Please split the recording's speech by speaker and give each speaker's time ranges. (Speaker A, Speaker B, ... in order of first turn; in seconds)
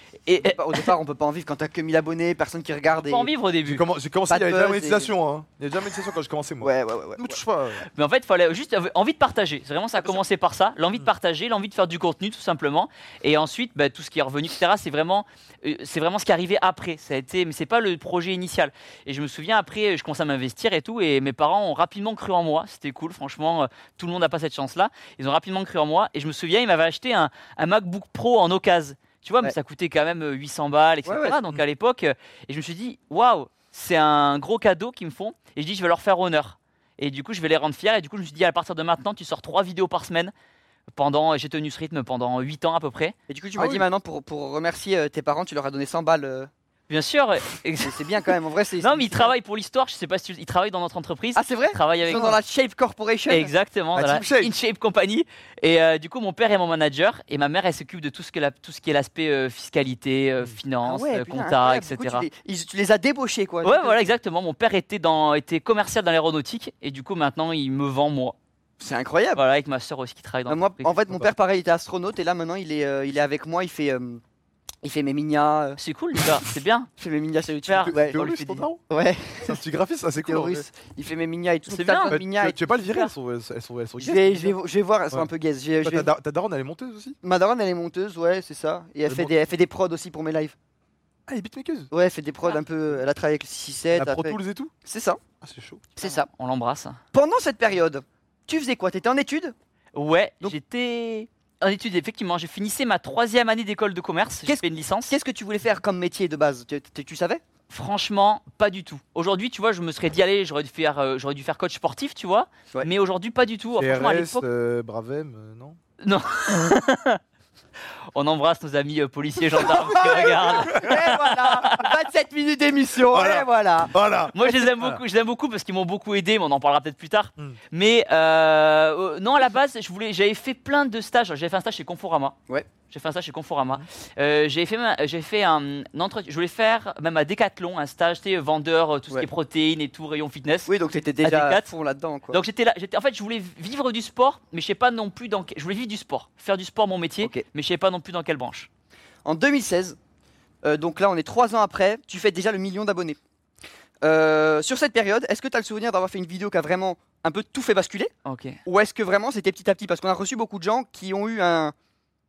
Speaker A: 0.3-0.9, 2.9-3.8, 7.9-40.3, 40.9-43.1, 46.9-52.4, 53.3-62.3, 63.6-68.3, 69.3-70.9, 75.8-76.9, 77.7-78.4, 81.7-82.2, 96.0-97.0, 99.9-105.1, 107.7-114.4, 116.0-117.2, 118.1-121.9, 124.3-132.4, 132.9-140.7, 141.2-141.7, 142.3-148.7, 158.2-158.6
Speaker B: 0.3-3.3, 4.3-5.1, 6.6-7.4, 10.0-10.2, 31.1-31.4, 43.3-46.5, 47.8-49.3, 51.3-53.5, 60.8-64.1, 68.8-69.4, 70.5-74.2, 74.8-75.8, 77.0-79.6, 80.2-83.1, 84.0-86.1, 87.2-90.5, 91.9-95.2, 96.0-96.3, 97.1-99.5, 104.4-107.4, 119.6-123.9, 140.7-142.4, 149.2-150.0, 150.6-153.2, 154.0-158.1, 158.6-161.7
Speaker C: 3.6-7.8, 43.6-43.9, 52.1-52.4, 53.9-54.5, 77.8-78.8, 79.4-80.7, 81.8-84.5, 85.8-87.2, 89.1-89.3, 91.3-91.9, 93.9-94.7, 95.4-95.9, 113.8-115.8, 119.8-121.2, 123.1-125.0